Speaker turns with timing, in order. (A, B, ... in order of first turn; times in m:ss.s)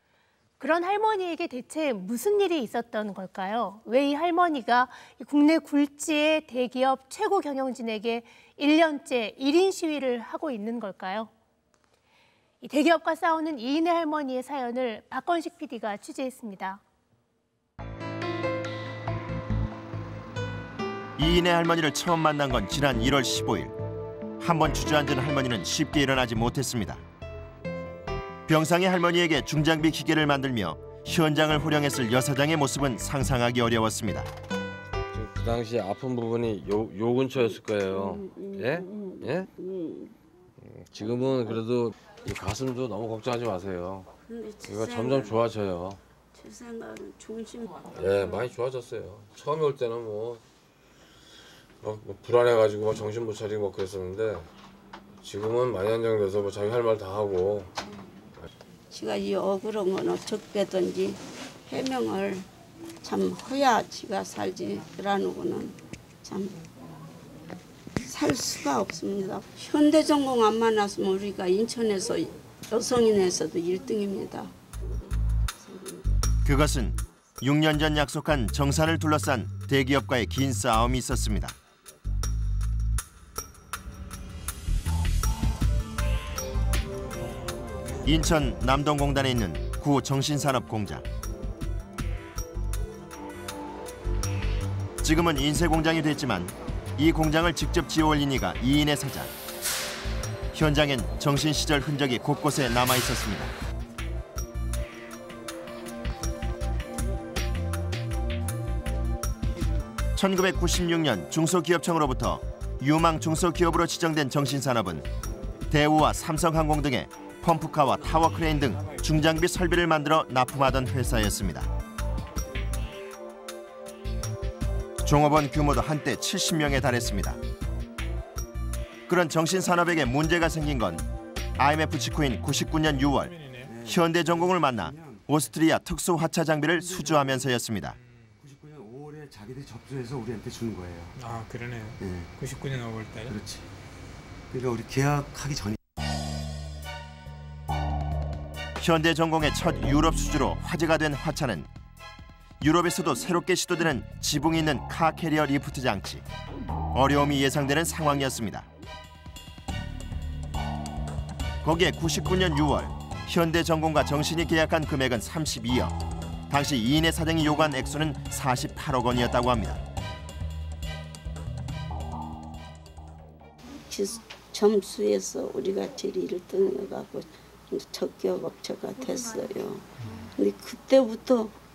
0:00.6-0:11.3 A
0:12.6-0:16.8 A
0:21.2-0:23.8 B
0:24.4-0:27.0 B
0:28.5-0:34.3 B
0:35.1-0:39.5 C
0:37.8-0:40.1 D
0:40.6-0:44.1 C
0:44.2-0:45.4 D
0:44.6-0:46.0 C
0:46.3-0:48.5 D
0:47.9-0:50.4 C
0:51.8-0:54.5 C
0:55.2-0:57.7 C
0:58.9-1:02.5 D
1:03.0-1:06.6 D
1:08.0-1:16.1 D
1:16.4-1:21.6 B
1:28.0-1:31.0 B
1:35.0-1:39.3 B
1:40.5-1:43.5 B
1:50.2-1:55.1 B
1:55.7-2:01.7 B
2:05.0-2:07.4 B
2:09.1-2:13.3 B
2:13.1-2:13.7 E
2:13.6-2:15.3 F
2:13.8-2:18.0 B
2:16.8-2:17.4 F
2:18.0-2:18.3 E
2:18.4-2:21.2 F
2:21.2-2:23.4 E
2:22.0-2:22.3 F
2:23.3-2:23.7 F
2:24.5-2:25.8 F
2:28.8-2:31.7 B
2:32.6-2:36.2 B
2:36.9-2:38.7 B
2:41.6-2:46.0 B
2:46.5-2:49.8 B
2:53.7-3:01.6 D
3:00.0-3:00.3 E